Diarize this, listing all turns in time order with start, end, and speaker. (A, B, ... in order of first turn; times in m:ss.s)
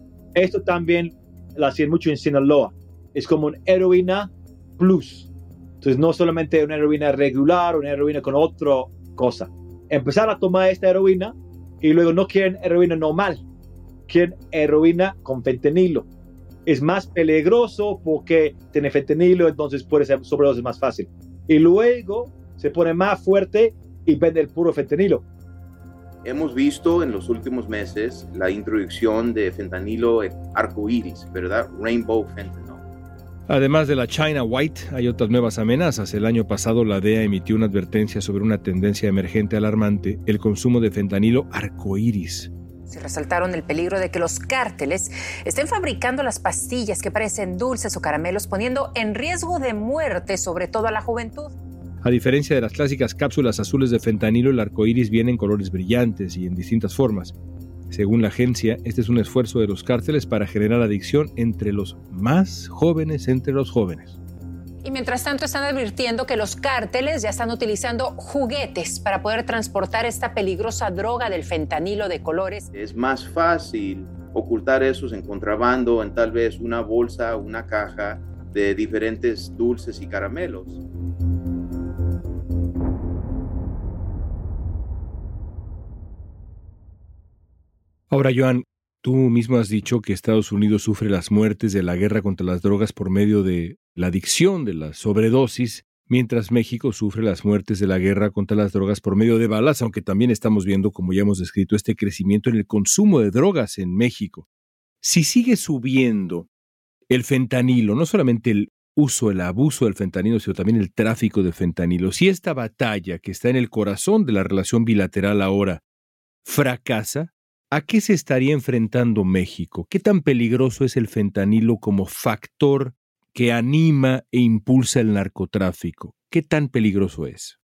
0:00.3-0:05.3 A
0:05.8-0:13.4 A
0:14.1-0:16.1 A
0:16.6-0:25.2 A
0:26.2-0:32.8 B
0:33.5-0:42.5 C
0:42.9-0:51.5 D
0:52.0-0:57.3 C
0:57.9-1:04.2 C
1:04.8-1:12.7 D
1:12.7-1:20.8 B
1:28.1-1:44.4 C
1:45.0-1:46.5 C
1:47.1-1:55.8 C
1:56.4-2:07.6 C